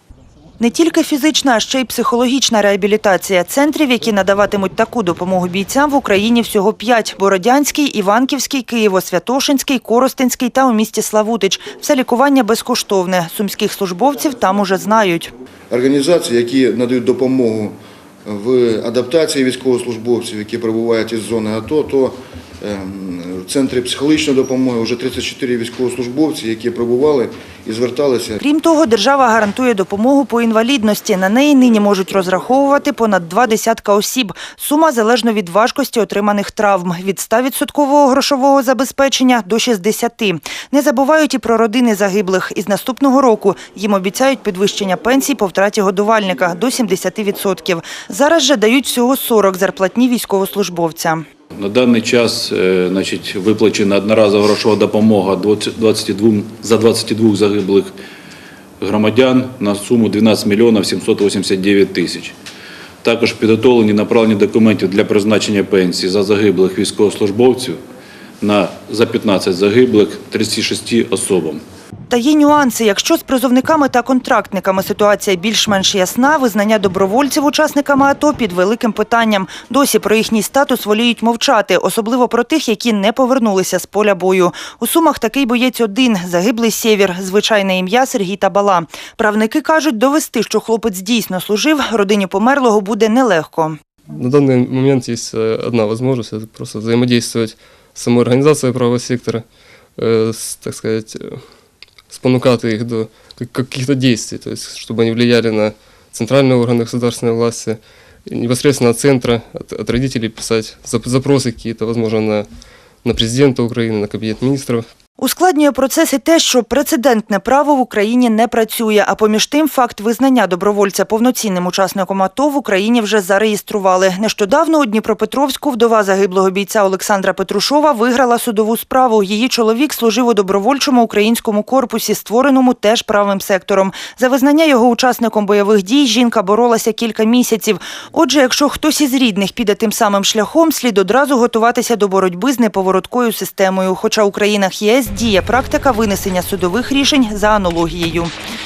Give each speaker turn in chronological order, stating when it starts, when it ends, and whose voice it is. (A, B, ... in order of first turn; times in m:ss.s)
0:00.6-0:15.3 A
0:15.7-0:28.4 B
0:28.4-0:51.2 A
0:51.6-0:57.9 C
0:58.8-1:02.4 C
1:03.0-1:07.8 C
1:08.4-1:11.6 C
1:12.1-1:33.8 A
1:34.1-1:39.4 D
1:40.0-1:41.4 D
1:42.1-1:52.5 D
1:53.0-1:54.8 D
1:55.2-2:28.3 A